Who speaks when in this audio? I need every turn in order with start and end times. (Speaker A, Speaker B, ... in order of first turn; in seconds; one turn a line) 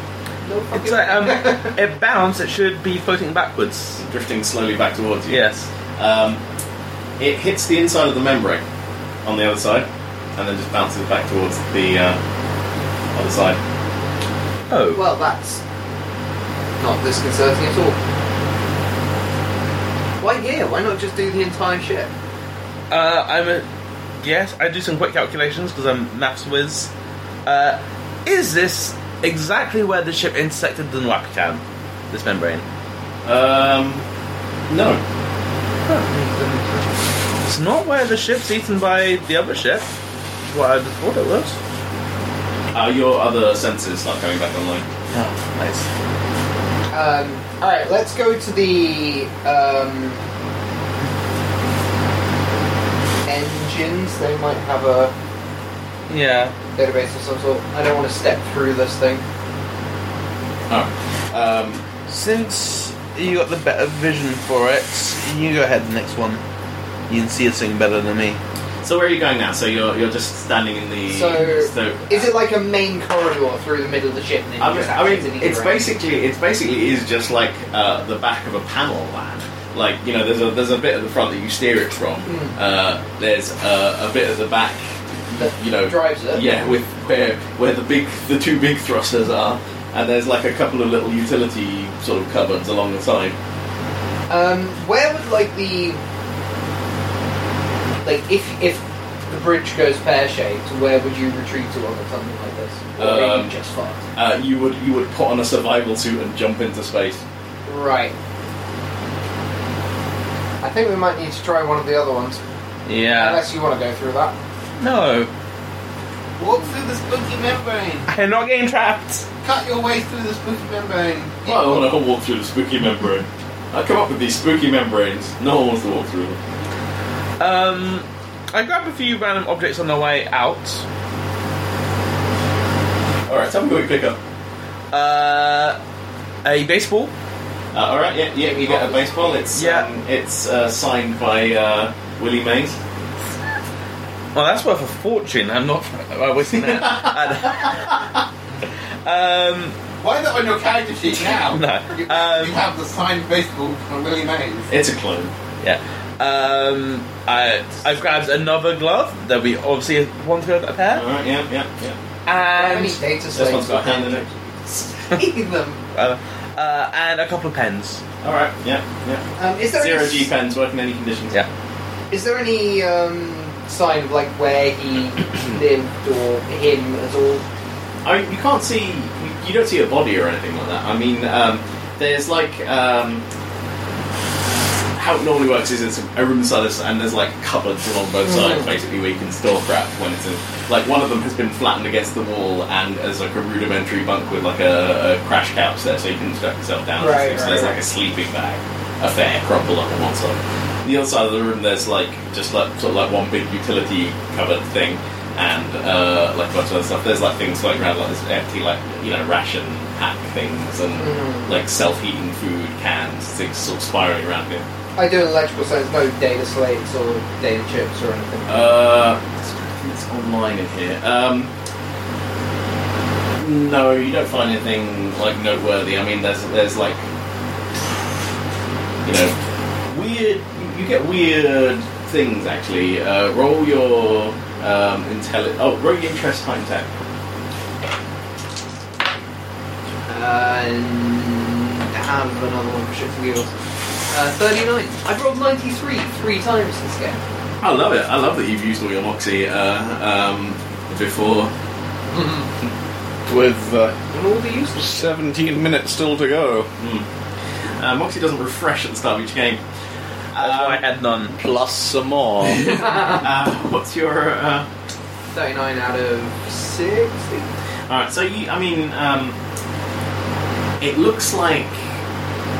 Speaker A: 0.4-1.8
Speaker B: 0.7-4.0
Speaker C: 4.0-5.3
Speaker B: 5.3-5.7
Speaker C: 6.0-6.4
Speaker C: 7.2-8.6
Speaker C: 9.2-9.8
Speaker C: 10.4-12.2
Speaker C: 13.1-13.6
Speaker B: 14.7-15.0
Speaker A: 14.9-15.6
Speaker A: 16.8-18.0
Speaker A: 20.2-22.1
Speaker B: 22.9-23.6
Speaker B: 24.2-26.9
Speaker B: 27.4-32.6
Speaker C: 33.2-34.0
Speaker C: 34.7-35.0
Speaker A: 35.9-36.9
Speaker B: 37.5-39.9
Speaker B: 40.5-41.5
Speaker C: 42.7-44.8
Speaker B: 45.1-45.9
Speaker A: 46.9-50.2
Speaker A: 53.2-55.1
Speaker B: 56.1-56.5
Speaker A: 56.8-59.2
Speaker C: 60.7-61.8
Speaker B: 62.1-66.4
Speaker B: 67.1-68.4
Speaker C: 68.8-72.2
Speaker A: 71.1-75.8
Speaker C: 74.6-93.3
Speaker A: 82.2-82.5
Speaker A: 85.3-86.7
Speaker A: 94.3-96.0
Speaker A: 98.0-104.0
Speaker C: 103.0-103.5
Speaker C: 104.2-107.2
Speaker A: 107.7-108.1
Speaker A: 110.6-112.4
Speaker B: 112.8-113.4
Speaker A: 113.2-114.3
Speaker B: 114.8-115.3
Speaker D: 116.4-118.1
Speaker B: 118.1-119.2
Speaker D: 119.4-121.8
Speaker C: 121.4-126.4
Speaker B: 127.4-130.8
Speaker C: 133.3-134.2
Speaker B: 134.9-135.8
Speaker B: 136.4-137.1
Speaker C: 137.7-142.7
Speaker A: 138.4-139.5
Speaker B: 139.5-139.9
Speaker B: 144.3-148.1
Speaker C: 146.5-147.8
Speaker B: 149.0-149.7
Speaker D: 150.0-154.7
Speaker B: 151.3-152.6
Speaker C: 154.7-155.3
Speaker B: 155.6-161.0
Speaker C: 160.9-162.0
Speaker B: 162.2-163.0
Speaker A: 162.5-165.8
Speaker C: 163.3-164.2
Speaker B: 165.9-168.0
Speaker C: 168.2-171.4
Speaker A: 169.4-170.3
Speaker A: 172.1-177.4
Speaker C: 178.0-183.2
Speaker C: 184.9-214.6
Speaker A: 188.2-188.7
Speaker A: 197.0-197.8
Speaker A: 211.0-211.5
Speaker A: 215.0-218.8
Speaker C: 218.5-221.5
Speaker C: 223.4-227.1
Speaker C: 229.0-229.3
Speaker C: 229.9-236.9
Speaker A: 240.1-243.5
Speaker A: 244.1-247.2
Speaker C: 247.6-251.5
Speaker A: 252.1-252.5
Speaker E: 253.3-253.9
Speaker A: 254.1-255.0
Speaker E: 254.8-256.7
Speaker C: 256.8-257.1
Speaker C: 257.8-259.6
Speaker C: 260.3-260.8
Speaker B: 260.4-261.3
Speaker E: 261.3-262.8
Speaker C: 262.4-264.7
Speaker A: 262.8-263.2
Speaker A: 265.3-267.5
Speaker C: 267.9-269.4
Speaker C: 270.8-271.9